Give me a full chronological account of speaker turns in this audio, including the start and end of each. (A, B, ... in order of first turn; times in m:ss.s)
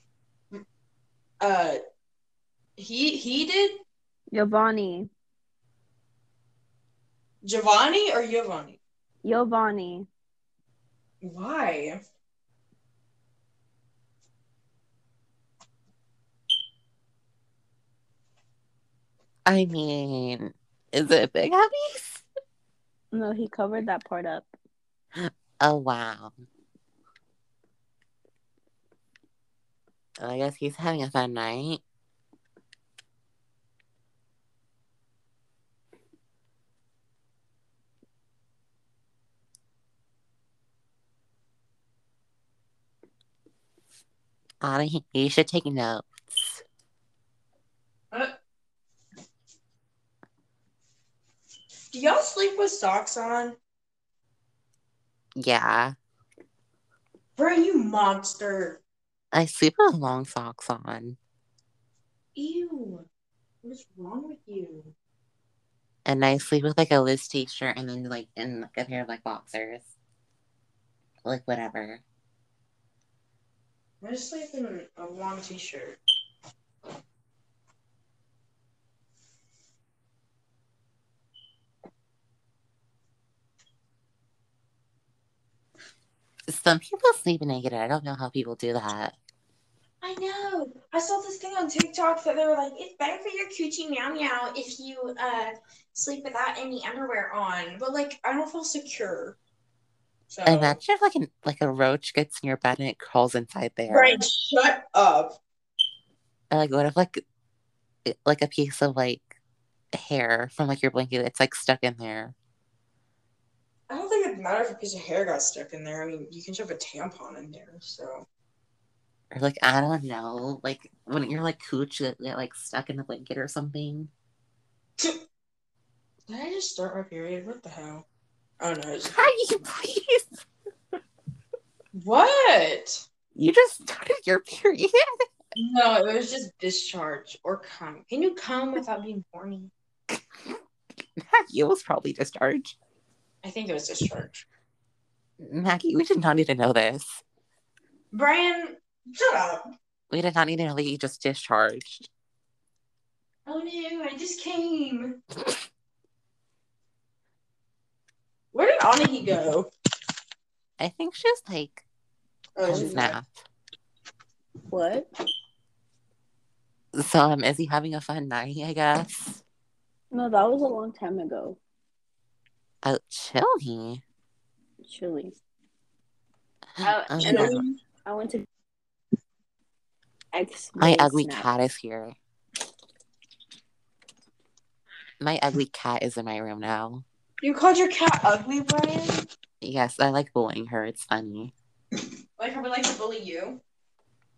0:01.4-0:01.8 A
0:02.8-0:03.8 A
0:04.3-0:05.1 B
0:07.4-0:08.8 A
0:09.2-0:10.1 B
0:11.2-0:12.0 A
0:19.5-0:22.2 C
0:23.1-0:24.5 B
0:25.2-0:26.4 C
0:30.2-0:31.8 C
0:44.6-0:46.6 C
0:51.9-0:53.6 A
0:55.4-0:56.0 C
0:57.4-0:58.8 A
0:59.3-1:01.2 C
1:02.4-1:03.1 A
1:03.6-1:04.9 A
1:06.1-1:09.9 C
1:11.2-1:12.0 C
1:14.0-1:16.0 A
1:26.5-1:29.2 C
1:30.0-1:39.4 A
1:40.3-1:40.8 A
1:40.4-1:44.2 C
1:43.9-1:45.4 A
1:46.5-1:47.2 C
1:48.1-1:49.3 C
1:49.9-1:52.4 C
1:53.9-1:58.2 A
1:59.3-2:04.1 C
2:06.3-2:08.0 A
2:08.6-2:09.2 A
2:09.1-2:10.4 C
2:11.9-2:13.0 A
2:13.4-2:15.0 C
2:15.6-2:19.7 A
2:21.2-2:22.8 C
2:23.4-2:24.5 A
2:25.4-2:27.2 C
2:28.1-2:29.7 A
2:30.1-2:32.1 C
2:33.5-2:35.2 A
2:38.5-2:39.7 A
2:40.8-2:41.8 C
2:42.6-2:43.2 A
2:42.7-2:43.4 C
2:44.7-2:45.1 B
2:47.0-2:49.4 C
2:50.1-2:51.6 B
2:52.8-2:54.0 C
2:54.8-2:55.3 B
2:56.8-2:57.6 C
2:56.8-2:58.5 B
2:57.2-2:57.8 A
3:00.3-3:01.5 B
3:00.8-3:02.2 C
3:05.2-3:07.0 C
3:07.4-3:09.2 A
3:09.6-3:11.5 C
3:12.4-3:13.6 A